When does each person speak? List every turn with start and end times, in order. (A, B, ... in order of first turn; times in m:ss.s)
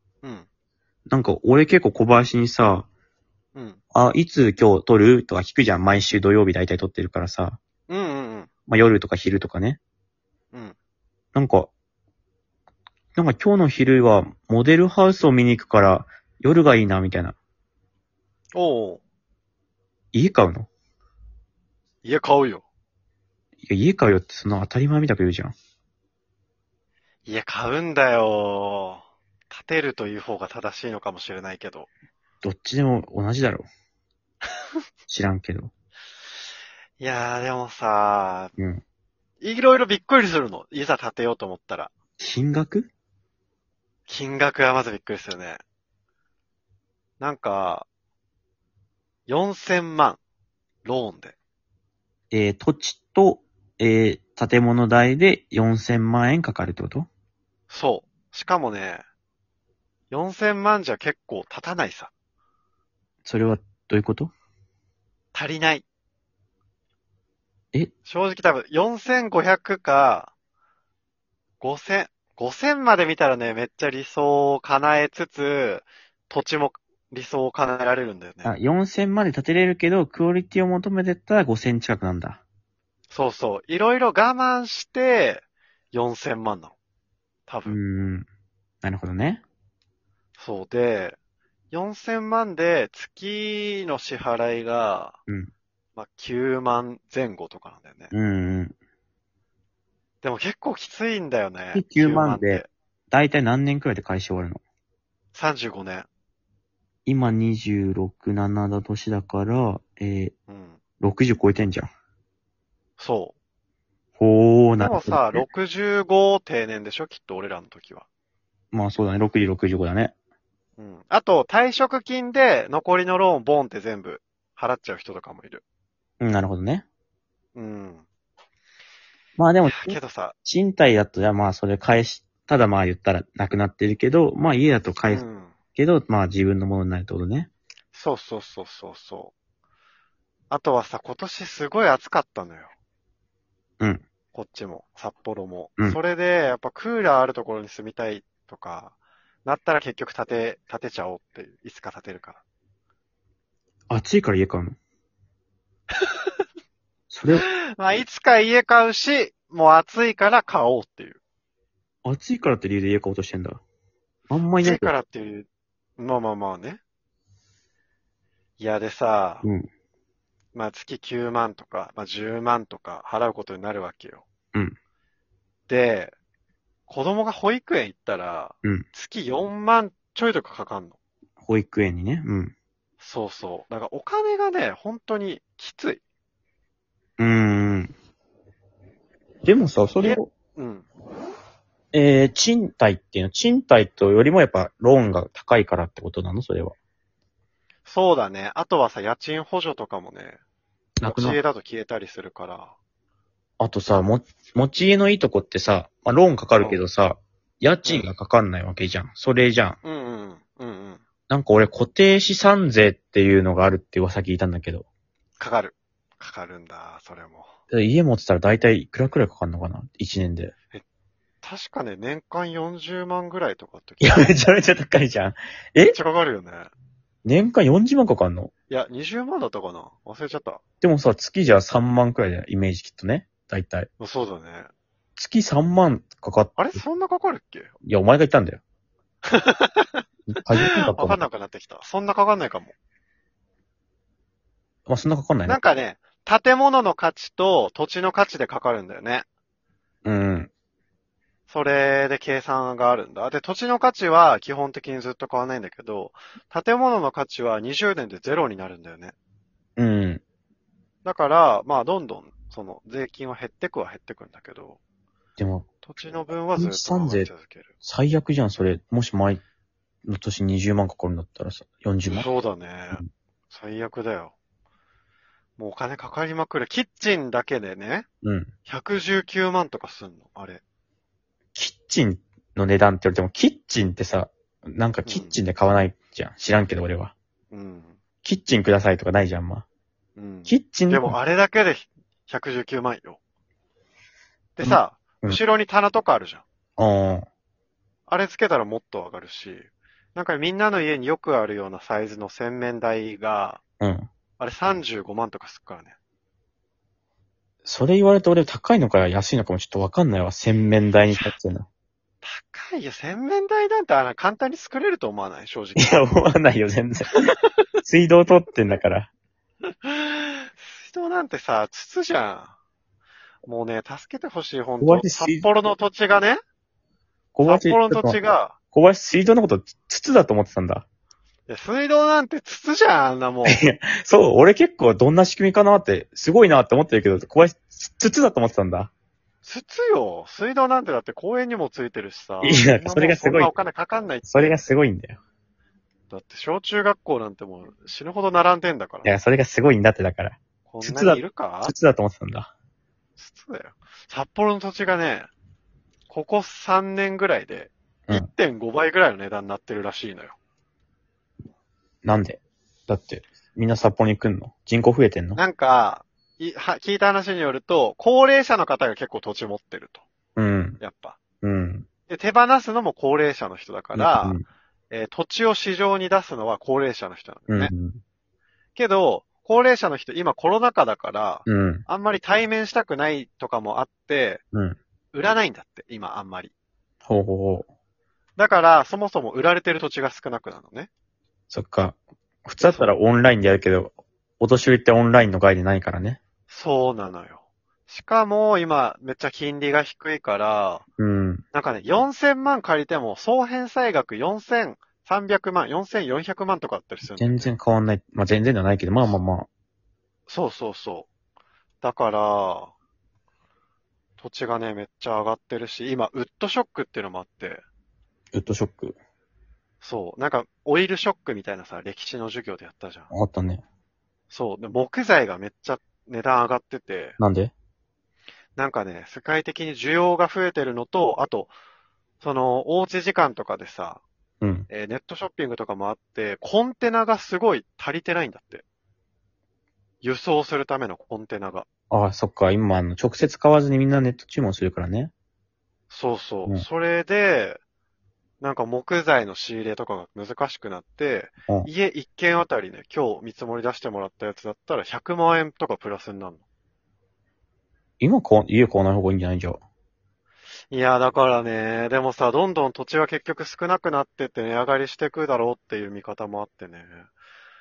0:01.1-0:02.9 A
0:03.5-0:03.8 B
0:03.9-0:07.6 A
0:07.9-0:08.5 B
0:08.7-0:09.8 A
0:11.4-0:11.7 A
0:13.2-0:17.4 A
0:18.6-0:19.0 B
0:20.1-0:20.7 A
0:22.0-0:22.6 B
0:23.6-0:25.6 A
0:27.3-0:31.9 B
0:32.4-0:33.7 A
0:35.1-0:35.7 A
0:37.0-0:38.5 B
0:38.6-0:38.8 A
0:39.4-0:41.9 B
0:42.2-0:42.9 A
0:44.1-0:45.6 B
0:47.2-0:47.9 B
0:49.3-0:50.2 B
0:50.8-0:51.4 B
0:52.3-0:57.1 A
0:57.7-0:59.0 B
1:00.1-1:02.1 B
1:03.2-1:04.3 A
1:05.3-1:05.9 B
1:08.1-1:10.3 B
1:11.6-1:18.6 B
1:18.4-1:22.4 A
1:23.1-1:26.8 B
1:27.5-1:27.8 B
1:27.7-1:28.3 A
1:28.8-1:29.4 A
1:30.4-1:31.2 B
1:31.7-1:35.2 B
1:36.0-1:38.1 B
1:38.1-1:38.8 A
1:40.2-1:42.7 B
1:41.7-1:44.6 A
1:45.4-1:46.1 B
1:47.1-1:50.3 A
1:50.5-1:50.8 B
1:51.0-1:51.9 A
1:53.0-1:53.4 B
1:54.2-1:55.4 A
1:54.8-1:58.1 B
1:58.7-2:00.1 A
2:00.8-2:05.6 B
2:06.2-2:06.9 A
2:07.6-2:08.0 B
2:09.4-2:17.5 A
2:09.6-2:10.4 B
2:15.1-2:15.6 B
2:17.9-2:19.3 B
2:20.5-2:22.7 B
2:23.8-2:24.0 A
2:24.3-2:32.4 B
2:33.9-2:34.8 A
2:35.9-2:36.3 B
2:37.1-2:37.5 A
2:37.4-2:41.2 B
2:42.0-2:43.6 A
2:44.3-2:44.9 A
2:44.6-2:46.8 B
2:48.6-2:49.5 B
2:49.4-2:49.7 A
2:50.5-2:54.3 B
2:55.7-2:56.2 B
2:56.9-3:01.0 B
3:01.4-3:02.5 A
3:03.0-3:06.0 B
3:07.2-3:07.9 A
3:09.4-3:10.3 A
3:10.0-3:10.9 B
3:11.9-3:16.8 A
3:17.9-3:20.4 B
3:21.0-3:21.4 A
3:21.0-3:22.8 B
3:23.6-3:29.8 A
3:29.8-3:31.0 B
3:31.3-3:34.9 A
3:35.4-3:37.5 B
3:37.7-3:40.5 A
3:41.4-3:44.3 B
3:44.0-3:46.0 A
3:45.9-3:46.7 B
3:47.2-3:48.5 A
3:48.7-3:50.6 B
3:50.8-3:53.9 A
3:54.0-3:54.7 B
3:55.2-3:56.8 A
3:56.6-3:57.8 B
3:57.8-3:58.6 A
3:59.2-4:00.0 B
4:00.3-4:01.2 A
4:00.6-4:02.7 B
4:04.9-4:05.6 A
4:05.4-4:09.3 B
4:10.0-4:10.5 A
4:11.5-4:19.1 B
4:19.8-4:20.2 A
4:21.0-4:24.8 B
4:25.4-4:25.7 A
4:25.8-4:27.7 B
4:26.6-4:27.3 A
4:27.8-4:29.4 A
4:30.1-4:32.3 A
4:32.1-4:34.3 B
4:35.6-4:38.1 B
4:38.2-4:38.5 A
4:38.7-4:40.6 B
4:41.6-4:47.1 A
4:45.1-4:45.4 B
4:47.5-4:48.0 B
4:48.2-4:49.7 A
4:50.2-4:53.2 B
4:50.5-4:51.2 A
4:54.6-4:56.4 B
4:54.6-4:55.4 A
4:56.8-4:57.3 A
4:58.1-5:03.6 B
5:03.8-5:04.1 A
5:04.4-5:06.0 B
5:07.6-5:11.7 A
5:12.2-5:16.0 B
5:15.8-5:17.3 A
5:17.8-5:19.1 A
5:19.8-5:22.6 B
5:23.4-5:26.4 B
5:24.8-5:25.4 A
5:27.4-5:28.2 A
5:27.4-5:28.6 B
5:28.7-5:30.9 A
5:31.5-5:33.6 B
5:33.4-5:38.9 A
5:39.4-5:44.6 B
5:42.4-5:43.6 A
5:44.3-5:45.2 A
5:46.1-5:49.1 B
5:49.0-5:52.5 A
5:50.7-5:51.7 B
5:53.2-5:55.3 B
5:56.1-6:00.4 B
6:02.0-6:05.4 A
6:05.4-6:10.0 B
6:10.4-6:10.8 A
6:10.8-6:11.2 B
6:11.4-6:11.9 A
6:12.1-6:17.7 B
6:13.9-6:14.4 A
6:17.5-6:18.0 A
6:18.8-6:24.4 B
6:21.5-6:21.8 A
6:24.5-6:24.8 A
6:25.1-6:26.5 B
6:27.1-6:27.7 A
6:28.4-6:30.9 B
6:31.5-6:36.2 A
6:32.6-6:33.0 B
6:36.5-6:40.9 B
6:41.0-6:41.4 A
6:41.5-6:47.5 B
6:47.1-6:49.5 A
6:50.3-6:51.1 B
6:51.8-6:52.7 B
6:54.2-6:57.6 B
6:58.3-6:59.0 A
6:59.8-7:03.1 B
7:03.1-7:03.6 A
7:04.3-7:07.2 B
7:07.2-7:07.5 A
7:08.6-7:11.5 B
7:12.2-7:14.0 B
7:14.4-7:14.7 A
7:14.7-7:18.6 B
7:20.0-7:21.7 B
7:21.9-7:25.1 A
7:25.9-7:27.6 B
7:28.4-7:36.4 B
7:38.0-7:39.6 A
7:40.7-7:47.1 B